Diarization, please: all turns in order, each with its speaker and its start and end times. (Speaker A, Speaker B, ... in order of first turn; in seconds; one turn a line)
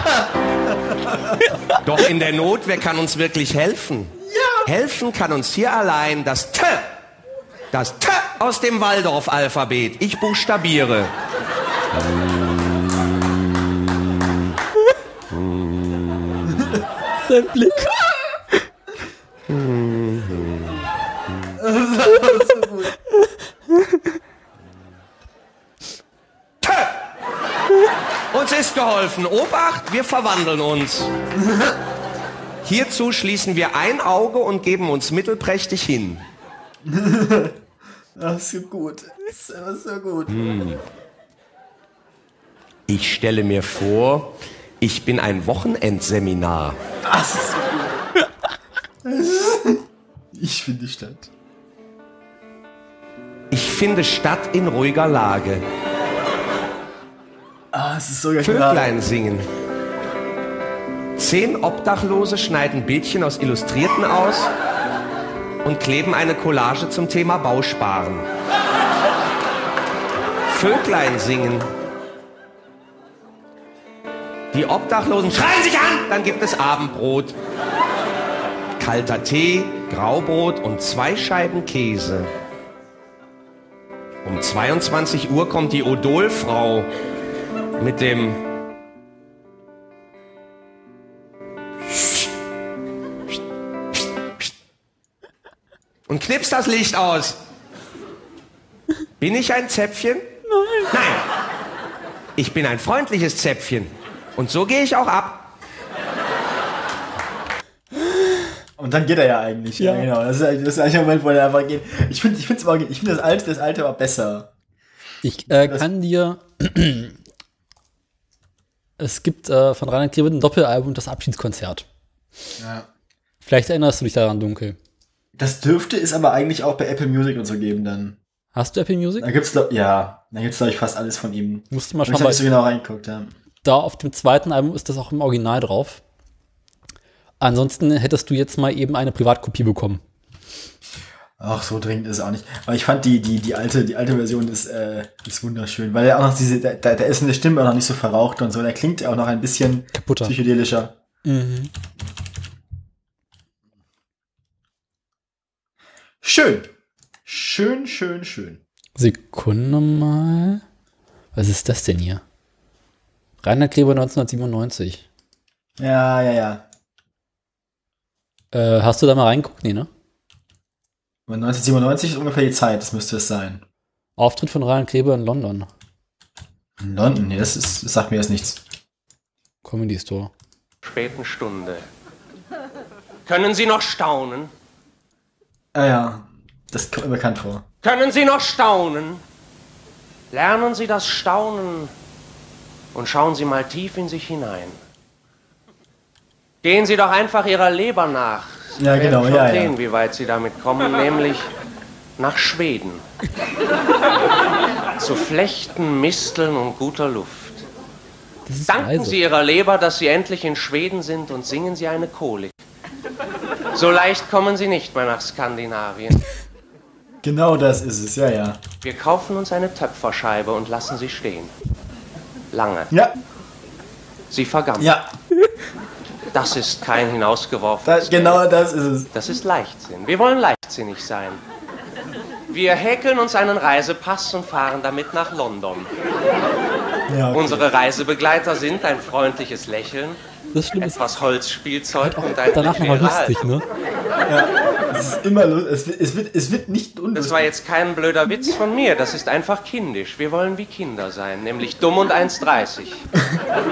Speaker A: 1.1-1.4
Speaker B: 1.5-1.8
Speaker C: 1.8-4.1
Speaker A: 4.3-4.6
Speaker C: 4.7-6.9
Speaker C: 7.7-11.1
Speaker C: 11.9-13.3
Speaker C: 15.3-16.7
Speaker B: 17.2-17.9
Speaker C: 19.5-20.7
Speaker A: 21.6-22.9
Speaker C: 26.6-26.9
Speaker C: 28.3-31.1
Speaker A: 31.4-31.7
Speaker C: 32.6-36.2
Speaker A: 36.8-37.6
Speaker A: 38.1-40.3
Speaker C: 40.3-40.8
Speaker C: 42.9-46.8
Speaker A: 47.0-48.0
Speaker A: 49.0-51.3
Speaker C: 53.5-55.6
Speaker A: 57.7-58.9
Speaker C: 58.4-59.5
Speaker C: 61.2-64.5
Speaker C: 65.6-68.3
Speaker C: 70.5-71.7
Speaker C: 74.5-77.3
Speaker C: 78.8-82.3
Speaker C: 84.2-86.9
Speaker C: 87.8-88.4
Speaker C: 96.1-97.4
Speaker C: 99.2-100.3
Speaker B: 100.5-100.9
Speaker C: 100.9-101.2
Speaker C: 102.4-105.5
Speaker A: 108.8-114.5
Speaker B: 109.8-110.1
Speaker B: 115.2-117.2
Speaker A: 115.5-115.9
Speaker B: 119.0-121.8
Speaker A: 122.6-122.9
Speaker B: 123.4-124.8
Speaker A: 125.4-128.2
Speaker B: 128.5-129.3
Speaker A: 129.2-133.3
Speaker B: 131.7-132.4
Speaker B: 133.6-136.0
Speaker B: 137.4-140.0
Speaker A: 141.4-150.9
Speaker B: 149.9-150.3
Speaker B: 151.2-151.7
Speaker A: 156.2-156.7
Speaker A: 157.2-158.6
Speaker B: 158.9-160.6
Speaker B: 161.3-162.2
Speaker B: 163.4-165.0
Speaker A: 165.8-166.6
Speaker B: 168.5-169.9
Speaker A: 171.3-173.6
Speaker B: 174.2-175.7
Speaker A: 176.8-178.6
Speaker B: 179.6-180.3
Speaker D: 180.8-181.8
Speaker D: 183.2-184.5
Speaker A: 185.7-187.6
Speaker D: 187.8-189.2
Speaker D: 190.3-191.9
Speaker D: 192.9-194.8
Speaker D: 196.6-201.5
Speaker A: 198.8-199.7
Speaker D: 202.2-203.0
Speaker D: 205.0-207.6
Speaker B: 208.4-209.2
Speaker D: 208.7-212.6
Speaker D: 213.7-216.2
Speaker A: 217.2-218.6
Speaker D: 218.8-221.5
Speaker D: 222.5-222.9
Speaker A: 222.9-223.2
Speaker D: 224.3-224.9
Speaker A: 224.8-225.1
Speaker D: 226.3-228.4
Speaker A: 227.8-229.1
Speaker D: 229.1-231.4
Speaker D: 232.5-235.9
Speaker A: 237.1-237.7
Speaker D: 237.3-240.2
Speaker B: 240.5-241.0
Speaker D: 240.8-243.6
Speaker B: 242.0-243.6
Speaker A: 244.2-247.5
Speaker D: 247.1-253.0